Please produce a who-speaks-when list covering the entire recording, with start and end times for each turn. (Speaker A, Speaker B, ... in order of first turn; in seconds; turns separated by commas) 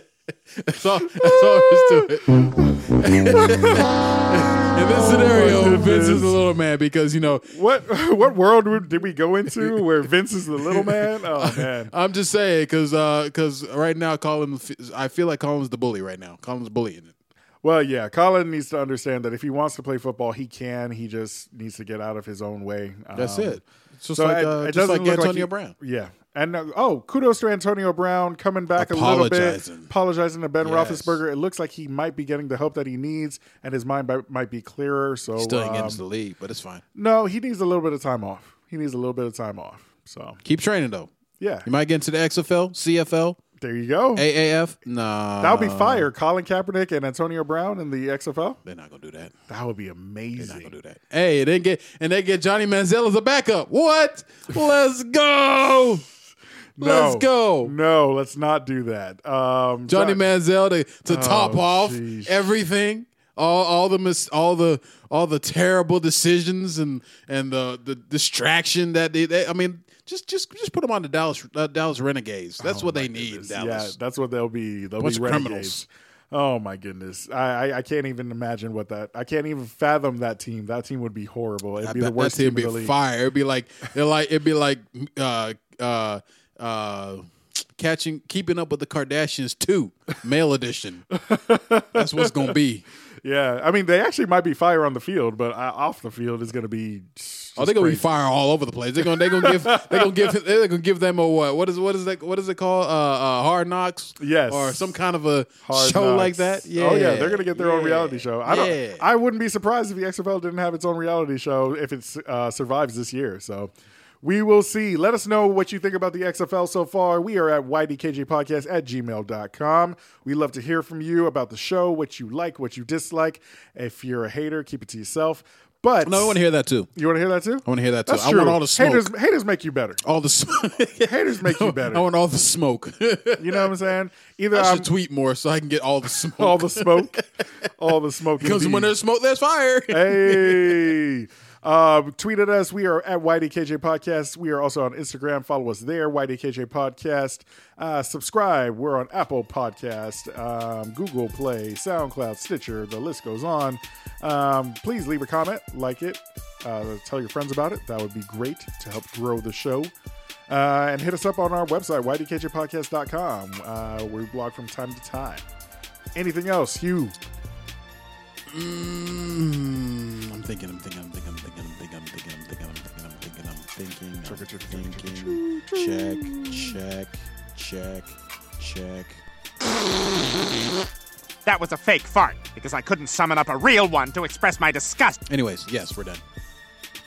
Speaker A: 0.5-7.5, Speaker B: 1.0-3.9, Speaker B: 4.9-6.4, Speaker B: 7.5-11.9, Speaker A: 10.7-17.1, Speaker B: 17.6-23.6, Speaker A: 23.1-25.8, Speaker B: 24.1-36.0, Speaker A: 28.8-29.9, Speaker A: 30.6-31.2, Speaker A: 35.4-36.8, Speaker B: 37.0-40.4, Speaker A: 40.4-41.1, Speaker B: 41.4-41.7, Speaker A: 41.6-43.4, Speaker B: 43.6-44.3, Speaker A: 44.2-46.1, Speaker B: 45.4-48.6, Speaker A: 48.6-49.3, Speaker B: 49.5-50.7, Speaker A: 50.4-56.1, Speaker B: 56.8-60.2, Speaker A: 56.8-57.8, Speaker A: 59.9-74.0, Speaker B: 61.1-62.5, Speaker B: 72.6-83.0, Speaker A: 75.0-75.9, Speaker A: 81.8-91.1, Speaker B: 91.1-92.6, Speaker A: 91.9-92.8, Speaker B: 93.2-98.1, Speaker A: 97.6-109.0, Speaker B: 99.0-100.3, Speaker B: 104.2-104.9, Speaker B: 105.6-126.4, Speaker A: 126.0-126.9, Speaker B: 127.0-130.0, Speaker A: 127.7-129.1, Speaker A: 130.0-133.7, Speaker B: 131.0-132.1, Speaker B: 133.4-134.9, Speaker A: 134.5-137.2, Speaker B: 136.3-137.2, Speaker B: 137.8-138.9, Speaker A: 138.4-140.9, Speaker B: 139.9-159.9, Speaker B: 160.5-165.4, Speaker B: 166.2-167.2, Speaker A: 168.5-179.2, Speaker B: 174.2-176.8, Speaker C: 181.4-185.2, Speaker A: 185.3-186.2